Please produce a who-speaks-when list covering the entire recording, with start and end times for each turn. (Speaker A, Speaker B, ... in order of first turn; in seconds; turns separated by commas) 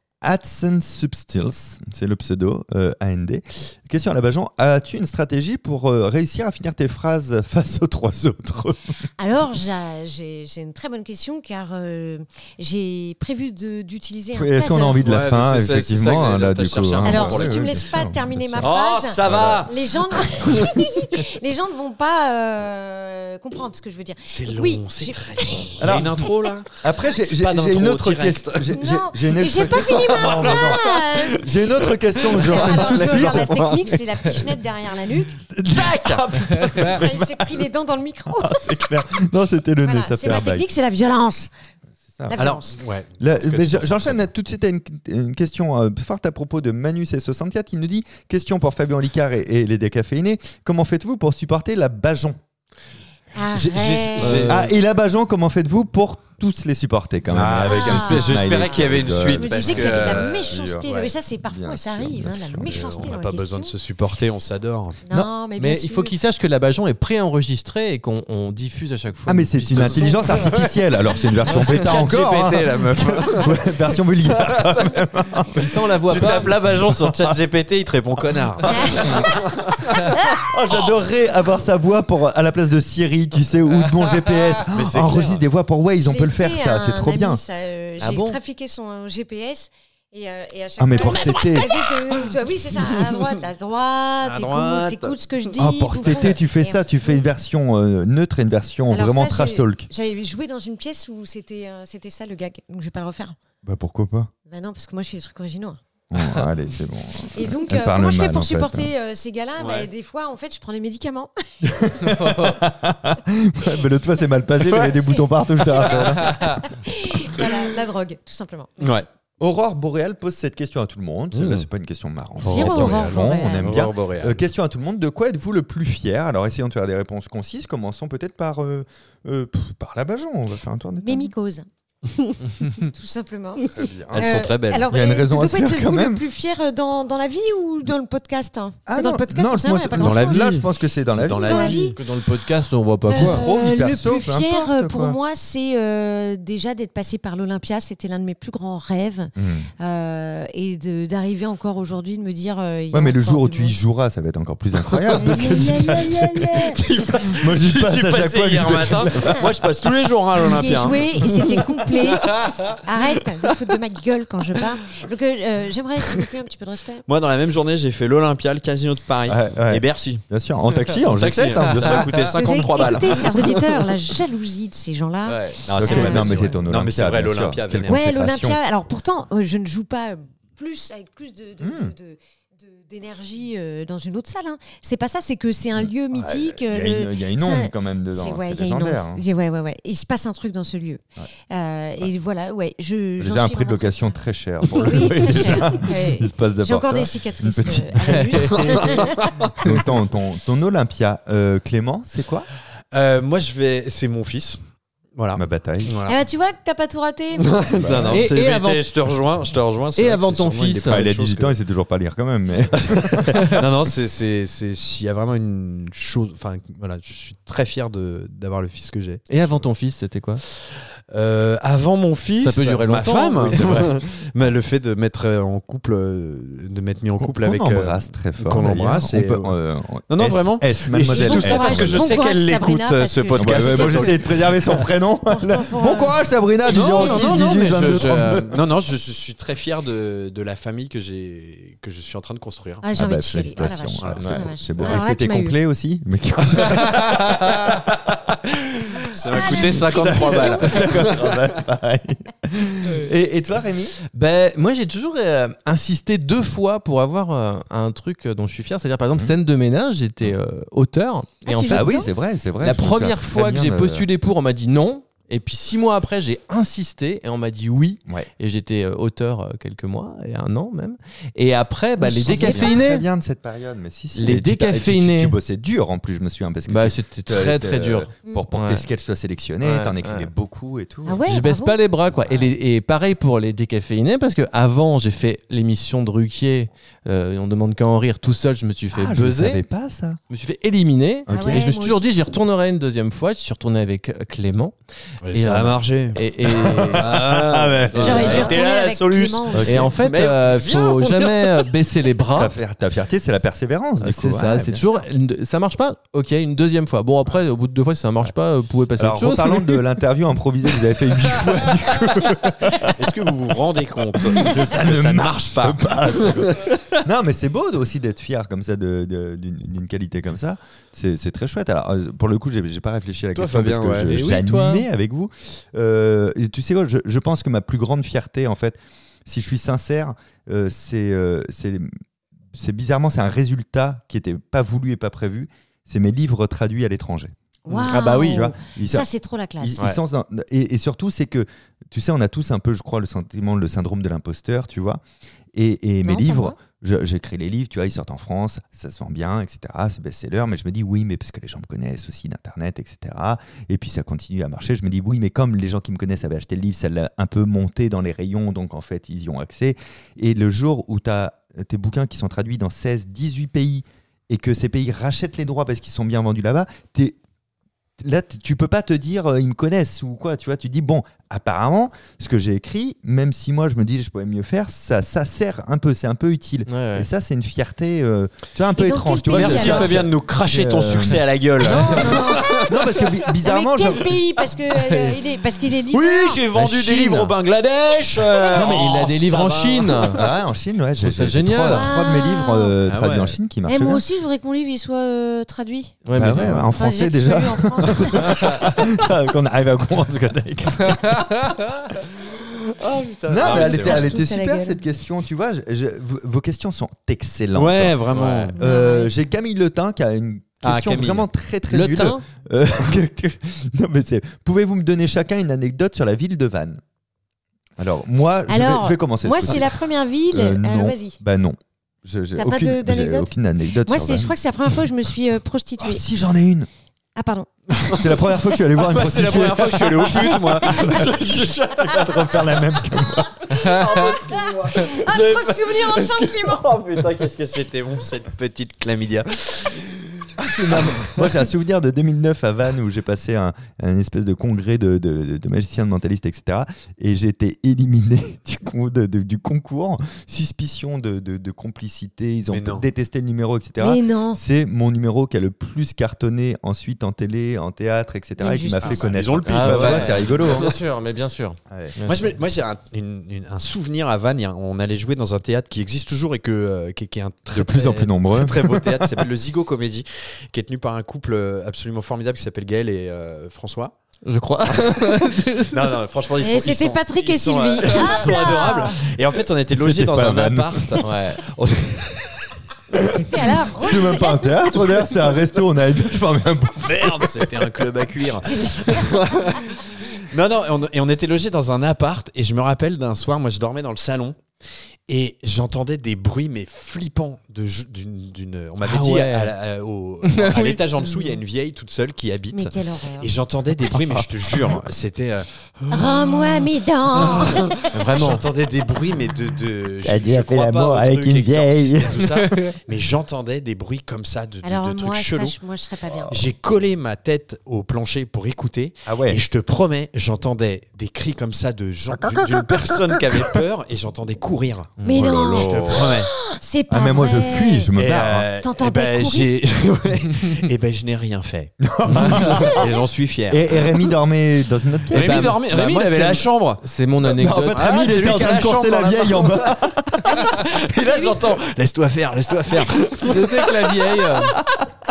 Speaker A: 0.2-8.9, Speaker B: 9.2-15.0, Speaker A: 14.3-18.7, Speaker C: 15.0-17.8, Speaker B: 17.0-26.0, Speaker C: 18.6-20.8, Speaker A: 19.2-19.7, Speaker C: 24.3-28.8, Speaker A: 25.8-34.5, Speaker B: 28.7-31.6, Speaker C: 29.6-33.7, Speaker B: 32.3-35.4, Speaker A: 35.5-37.7, Speaker C: 35.7-36.3, Speaker B: 36.9-38.7, Speaker A: 38.4-40.7, Speaker B: 39.9-41.5, Speaker A: 42.1-42.4, Speaker B: 42.3-42.8, Speaker C: 42.3-44.3, Speaker A: 43.2-52.4, Speaker B: 53.4-54.5, Speaker C: 53.5-54.7, Speaker D: 54.2-54.7, Speaker A: 54.5-60.9, Speaker C: 57.3-61.1, Speaker B: 57.6-63.7, Speaker A: 61.4-63.1, Speaker C: 62.6-65.0, Speaker B: 65.0-66.1, Speaker D: 65.6-70.2, Speaker A: 69.3-77.4, Speaker B: 69.9-70.2, Speaker C: 70.1-70.6, Speaker C: 71.4-73.7, Speaker D: 71.5-71.8, Speaker C: 74.4-74.8, Speaker D: 75.5-76.6, Speaker C: 76.1-80.1, Speaker A: 78.4-79.4, Speaker B: 78.7-79.2, Speaker A: 79.9-87.4, Speaker B: 80.1-80.5, Speaker C: 84.7-85.4, Speaker B: 86.0-97.2, Speaker D: 88.0-88.4, Speaker A: 90.8-91.8, Speaker C: 94.2-95.5, Speaker A: 95.6-99.9, Speaker C: 96.1-96.3, Speaker B: 98.9-103.4, Speaker A: 103.6-104.3, Speaker B: 104.5-105.8, Speaker A: 106.1-108.9, Speaker B: 107.3-111.3, Speaker C: 109.6-109.9, Speaker A: 111.6-116.7, Speaker D: 112.2-112.6, Speaker C: 114.7-115.0, Speaker B: 114.8-119.0, Speaker C: 118.8-119.1, Speaker A: 119.4-131.3, Speaker C: 121.3-121.7, Speaker B: 122.4-123.9, Speaker C: 122.4-124.5, Speaker B: 131.0-140.6, Speaker A: 133.7-134.3, Speaker C: 134.1-134.9, Speaker A: 134.9-136.2, Speaker A: 138.9-141.9, Speaker C: 139.9-142.0, Speaker B: 141.4-142.0, Speaker D: 142.0-143.4, Speaker B: 143.1-153.8, Speaker A: 143.1-145.2, Speaker A: 149.4-149.7, Speaker A: 152.9-159.9, Speaker B: 155.1-156.8, Speaker C: 155.1-156.1, Speaker C: 156.7-162.8, Speaker B: 160.4-167.0, Speaker A: 161.2-161.6, Speaker C: 167.1-170.2, Speaker A: 169.3-173.0, Speaker C: 171.1-173.9, Speaker D: 171.9-172.2, Speaker B: 172.3-176.4, Speaker D: 175.3-175.6, Speaker C: 175.7-178.0, Speaker A: 175.7-178.6, Speaker B: 177.9-199.3, Speaker A: 181.6-181.9, Speaker A: 185.8-189.2, Speaker A: 193.2-198.8, Speaker C: 198.6-200.0, Speaker A: 199.6-202.5, Speaker C: 202.9-204.6, Speaker C: 205.2-206.2, Speaker A: 205.3-205.9, Speaker B: 206.1-208.0, Speaker C: 207.5-211.6, Speaker A: 207.8-208.3, Speaker D: 208.1-208.8, Speaker D: 210.0-211.1, Speaker A: 210.9-213.5, Speaker C: 213.4-219.7, Speaker D: 219.3-220.4, Speaker C: 220.6-229.6, Speaker D: 222.4-223.9, Speaker A: 223.7-223.9, Speaker A: 227.2-232.1, Speaker C: 230.1-234.9, Speaker B: 231.1-234.3, Speaker A: 233.4-238.6, Speaker B: 235.3-236.2, Speaker C: 236.7-242.9, Speaker B: 237.0-237.3, Speaker B: 242.8-245.6, Speaker A: 242.9-247.6, Speaker C: 243.6-244.2, Speaker D: 244.2-245.0, Speaker D: 246.6-247.7, Speaker C: 249.1-251.5, Speaker B: 249.3-251.2, Speaker A: 249.4-254.0, Speaker D: 254.1-262.0, Speaker B: 261.4-262.1, Speaker A: 261.7-264.1, Speaker D: 262.6-273.1, Speaker B: 272.0-272.8, Speaker A: 272.1-281.2, Speaker D: 274.1-275.4, Speaker D: 276.7-278.9, Speaker D: 279.6-280.3, Speaker B: 281.1-281.8, Speaker D: 281.3-289.6, Speaker A: 282.1-282.5, Speaker A: 288.9-290.2, Speaker D: 290.3-294.7, Speaker A: 291.3-291.6, Speaker B: 291.3-292.1, Speaker C: 295.2-296.2, Speaker D: 295.3-297.3, Speaker A: 296.4-298.6, Speaker C: 296.9-301.7, Speaker D: 297.9-298.6, Speaker B: 298.0-299.9, Speaker A: 299.5-299.9, Speaker D: 299.6-302.5, Speaker A: 302.3-304.9, Speaker D: 304.0-309.8, Speaker A: 309.0-313.0, Speaker C: 312.8-316.9, Speaker A: 314.1-331.9, Speaker C: 323.4-324.4, Speaker D: 324.1-324.9, Speaker A: 332.5-339.1, Speaker B: 337.6-339.8, Speaker D: 337.7-338.1, Speaker A: 339.6-345.0, Speaker A: 345.5-367.2, Speaker B: 346.0-346.6, Speaker A: 368.0-384.2, Speaker D: 376.7-377.1, Speaker B: 378.7-380.0, Speaker C: 379.3-383.0, Speaker B: 381.7-382.7, Speaker B: 383.4-386.4, Speaker C: 385.9-390.2, Speaker A: 386.5-387.4, Speaker A: 388.5-389.1, Speaker D: 388.6-390.2, Speaker A: 390.1-394.0, Speaker D: 391.0-391.9, Speaker B: 391.6-392.8, Speaker C: 392.9-393.4, Speaker B: 393.7-396.0, Speaker D: 396.1-396.7, Speaker A: 396.1-402.5, Speaker B: 396.8-398.4, Speaker D: 400.8-401.7, Speaker C: 402.9-404.1, Speaker A: 403.3-416.8, Speaker B: 403.4-404.8, Speaker C: 407.6-408.6, Speaker D: 408.1-408.5, Speaker B: 408.6-409.1, Speaker C: 410.6-411.3, Speaker D: 411.7-412.2, Speaker A: 417.8-419.8, Speaker B: 418.5-421.2, Speaker A: 420.3-424.4, Speaker B: 422.4-426.0, Speaker A: 425.8-426.7, Speaker B: 427.2-427.5, Speaker C: 427.7-428.2, Speaker A: 427.9-431.2, Speaker C: 428.8-432.4, Speaker B: 430.6-431.4, Speaker A: 431.8-433.4, Speaker C: 433.5-441.4, Speaker D: 433.5-434.1, Speaker B: 434.3-436.7, Speaker A: 440.4-460.8, Speaker C: 452.5-452.9, Speaker B: 453.8-454.4, Speaker B: 458.4-459.1, Speaker C: 458.8-460.8, Speaker D: 459.4-462.4, Speaker A: 461.7-462.0, Speaker C: 462.1-473.9, Speaker A: 467.5-469.3, Speaker D: 474.2-476.0, Speaker C: 475.7-481.2, Speaker B: 476.4-479.0, Speaker A: 479.7-487.8, Speaker D: 481.0-481.4, Speaker B: 483.1-484.6, Speaker C: 486.8-494.4, Speaker B: 488.5-489.1, Speaker C: 495.1-515.6, Speaker D: 498.8-499.5, Speaker D: 500.3-500.8, Speaker B: 501.0-501.4, Speaker B: 502.5-503.3, Speaker A: 503.9-504.8, Speaker B: 505.9-507.9, Speaker D: 507.9-508.5, Speaker A: 510.0-512.5, Speaker B: 514.6-516.5, Speaker C: 516.3-526.3, Speaker A: 519.1-519.4, Speaker A: 522.4-523.5, Speaker B: 525.0-527.9, Speaker A: 525.1-526.2, Speaker A: 526.9-528.5, Speaker C: 527.9-534.0, Speaker B: 528.6-529.5, Speaker A: 531.8-532.9, Speaker D: 532.2-532.5, Speaker A: 533.5-536.5, Speaker C: 535.1-536.8, Speaker D: 535.1-535.6, Speaker D: 536.8-537.9, Speaker A: 537.2-540.4, Speaker C: 537.7-544.6, Speaker B: 540.2-541.6, Speaker D: 543.2-544.6